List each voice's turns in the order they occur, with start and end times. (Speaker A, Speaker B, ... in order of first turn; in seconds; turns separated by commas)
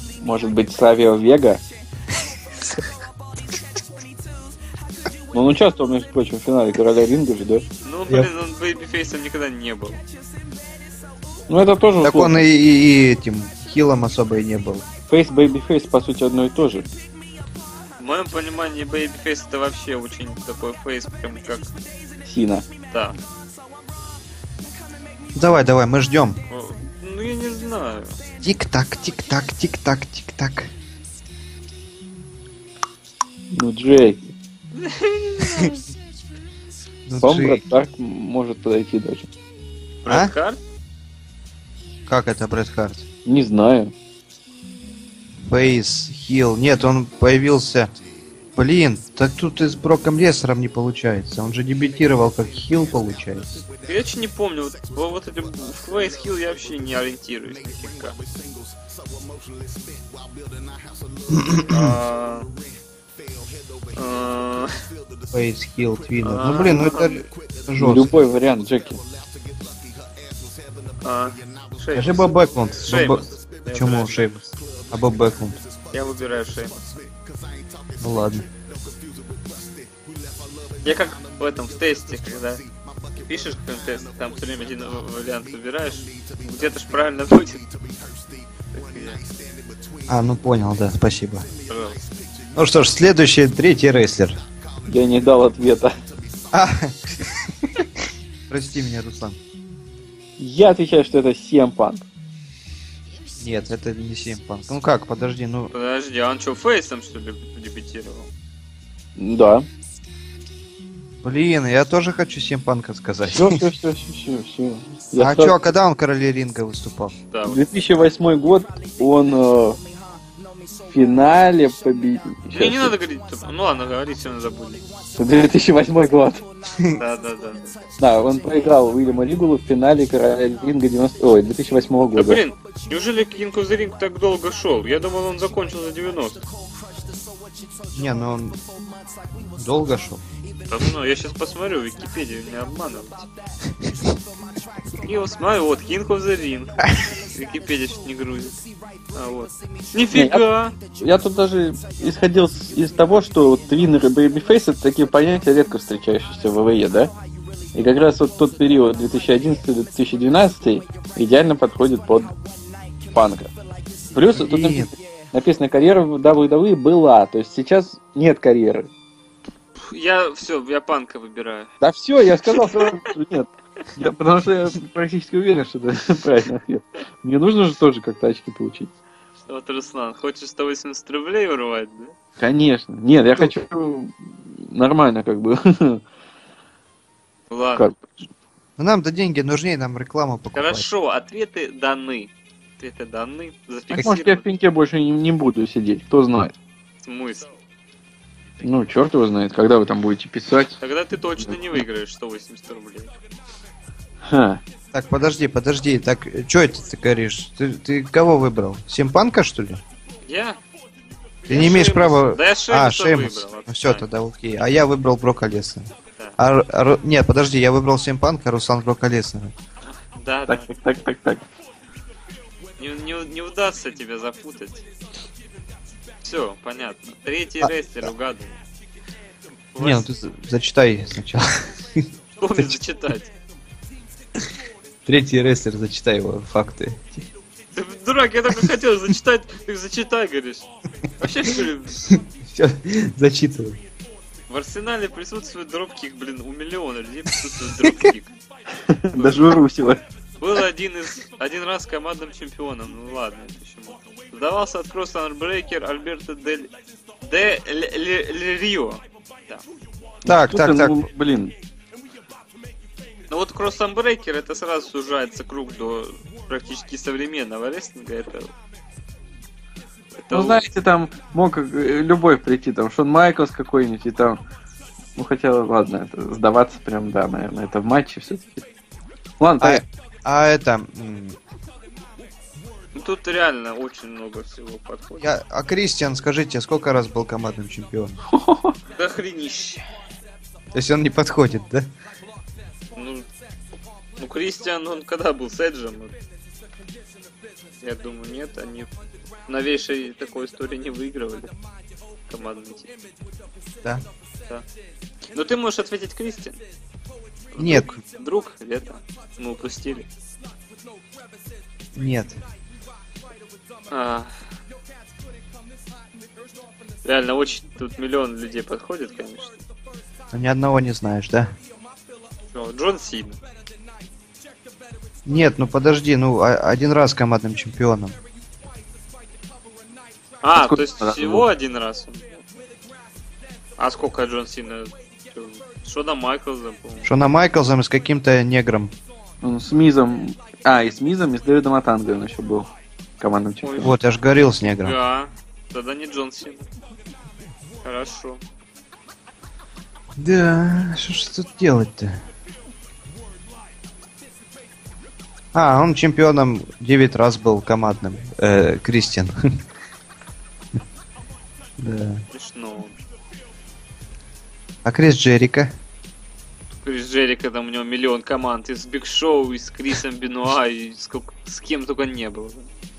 Speaker A: 0.2-1.6, Speaker A: 5.3-7.7, Speaker B: 7.8-10.0, Speaker A: 11.5-12.4, Speaker C: 12.0-14.8, Speaker A: 15.1-16.9, Speaker B: 18.0-21.7, Speaker A: 22.2-22.7, Speaker B: 22.9-23.2, Speaker C: 25.3-26.4, Speaker B: 26.5-28.2, Speaker C: 28.4-30.7, Speaker A: 33.5-34.2, Speaker B: 34.7-35.8, Speaker C: 37.1-37.6, Speaker A: 37.2-39.3, Speaker B: 40.0-40.6, Speaker C: 40.1-40.3, Speaker C: 42.1-43.0, Speaker A: 43.2-43.9, Speaker C: 45.5-47.9, Speaker C: 48.5-53.6, Speaker B: 53.8-58.2, Speaker C: 61.3-61.9, Speaker B: 61.7-62.5, Speaker B: 63.9-64.7, Speaker C: 65.3-68.1, Speaker B: 66.2-67.2, Speaker A: 67.8-69.0, Speaker B: 71.0-74.5, Speaker C: 71.9-75.6, Speaker B: 75.9-76.9, Speaker C: 78.0-78.5, Speaker B: 80.8-82.6, Speaker B: 83.2-87.6, Speaker B: 88.7-89.2, Speaker C: 90.0-91.5, Speaker B: 91.7-92.0, Speaker C: 92.5-94.4, Speaker A: 94.9-95.9, Speaker C: 96.5-97.9, Speaker C: 98.5-99.4, Speaker A: 100.4-102.0, Speaker C: 103.4-105.7, Speaker B: 105.7-108.3, Speaker A: 109.2-109.7, Speaker C: 111.2-113.6, Speaker A: 113.3-115.6, Speaker C: 115.2-117.1, Speaker B: 117.3-117.6, Speaker A: 117.5-119.8, Speaker A: 120.9-122.9, Speaker B: 122.5-124.8, Speaker A: 125.2-126.4, Speaker B: 126.9-127.8, Speaker A: 128.0-132.4, Speaker B: 132.1-136.5, Speaker C: 137.9-138.6, Speaker C: 139.6-140.2, Speaker B: 140.7-143.3, Speaker B: 145.0-148.6, Speaker B: 149.1-150.8, Speaker A: 150.1-157.1, Speaker A: 157.7-162.3, Speaker A: 163.1-163.5, Speaker A: 164.1-168.9, Speaker C: 164.3-164.9, Speaker B: 169.8-171.7, Speaker A: 171.8-178.9, Speaker B: 172.5-172.9, Speaker B: 179.5-182.1, Speaker A: 182.4-186.0, Speaker B: 187.5-187.9, Speaker C: 188.8-190.8, Speaker B: 190.5-194.4, Speaker A: 193.9-196.5, Speaker B: 197.0-197.5, Speaker A: 198.6-200.8, Speaker B: 200.8-203.1, Speaker A: 204.3-204.6, Speaker C: 204.9-209.8, Speaker B: 210.2-210.6, Speaker B: 211.4-214.0, Speaker C: 211.5-219.5, Speaker B: 220.1-220.7, Speaker A: 220.5-221.4, Speaker B: 222.8-224.9, Speaker B: 226.2-228.6, Speaker B: 229.7-230.1, Speaker C: 229.8-232.8, Speaker B: 232.4-233.3, Speaker C: 235.1-237.2, Speaker B: 237.7-242.0, Speaker C: 242.0-243.8, Speaker B: 244.5-248.3, Speaker C: 247.8-248.1, Speaker A: 248.9-250.0, Speaker B: 249.1-249.6, Speaker B: 250.4-259.6, Speaker C: 260.2-261.1, Speaker A: 260.2-261.5, Speaker B: 263.3-268.5, Speaker B: 270.2-270.6, Speaker A: 270.3-274.4, Speaker A: 275.1-278.6, Speaker A: 279.4-279.8, Speaker C: 279.6-281.4, Speaker B: 282.9-285.3, Speaker C: 285.2-288.2, Speaker A: 288.3-288.8, Speaker B: 288.9-289.8, Speaker C: 290.7-291.9, Speaker B: 292.9-293.3, Speaker B: 294.2-296.1, Speaker B: 297.8-298.9, Speaker B: 299.4-301.5, Speaker B: 302.3-302.9, Speaker B: 305.3-306.6, Speaker B: 307.5-310.1, Speaker C: 307.6-308.0, Speaker C: 311.9-312.4, Speaker B: 313.9-314.3, Speaker B: 317.0-319.6, Speaker C: 320.3-321.5, Speaker B: 322.5-323.4, Speaker C: 325.2-328.2, Speaker B: 330.4-332.4, Speaker A: 330.5-331.5, Speaker B: 333.8-337.1, Speaker C: 337.0-338.9, Speaker A: 339.4-342.7, Speaker A: 343.2-343.9, Speaker B: 343.6-343.9, Speaker C: 343.8-344.9, Speaker B: 344.8-346.6, Speaker B: 347.8-348.4, Speaker C: 350.2-352.1, Speaker C: 355.5-359.3, Speaker C: 361.8-362.2, Speaker B: 362.3-363.0, Speaker C: 364.8-365.7, Speaker B: 366.7-372.7